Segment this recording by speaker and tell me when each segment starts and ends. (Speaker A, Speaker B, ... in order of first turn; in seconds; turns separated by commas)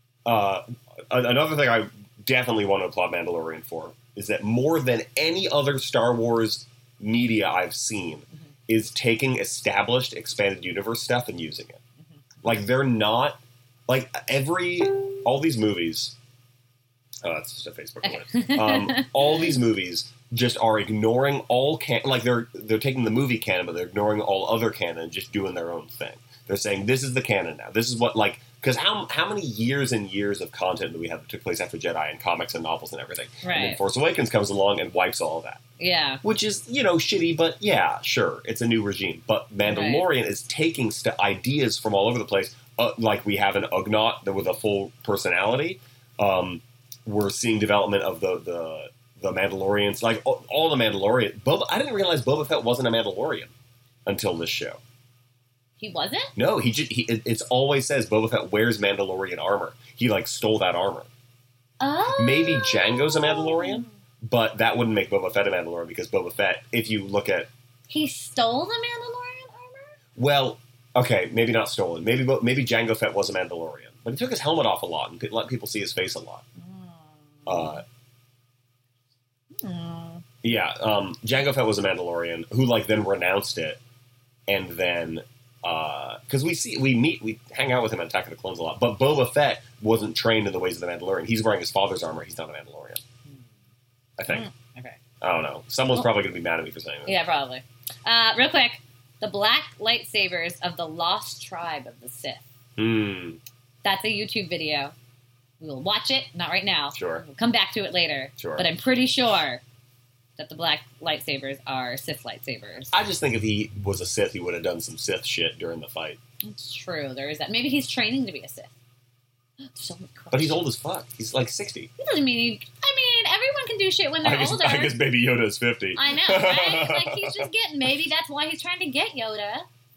Speaker A: 0.2-11.8, Speaker A: 12.4-16.1, Speaker A: 17.2-35.6, Speaker B: 18.0-19.6, Speaker B: 33.4-33.8, Speaker B: 35.8-36.2, Speaker A: 36.2-53.5, Speaker B: 39.6-40.0, Speaker A: 54.0-54.8, Speaker B: 55.8-56.3, Speaker A: 56.4-61.1, Speaker B: 61.8-64.0, Speaker A: 62.1-67.5, Speaker B: 67.9-69.9, Speaker A: 70.2-76.4, Speaker B: 76.6-77.8, Speaker A: 77.5-77.8, Speaker B: 79.6-80.2, Speaker A: 80.4-83.8, Speaker A: 84.5-93.0, Speaker A: 94.2-94.5, Speaker B: 94.3-95.0, Speaker A: 95.2-97.2, Speaker B: 97.0-102.4, Speaker A: 102.8-103.4, Speaker B: 103.8-104.9, Speaker B: 105.6-109.6, Speaker A: 106.9-107.2, Speaker A: 108.4-108.7, Speaker B: 110.4-112.9, Speaker A: 112.9-116.2, Speaker B: 116.4-118.7, Speaker B: 119.7-120.6, Speaker A: 120.3-121.9, Speaker B: 122.0-125.0, Speaker A: 124.2-127.4, Speaker B: 125.9-129.7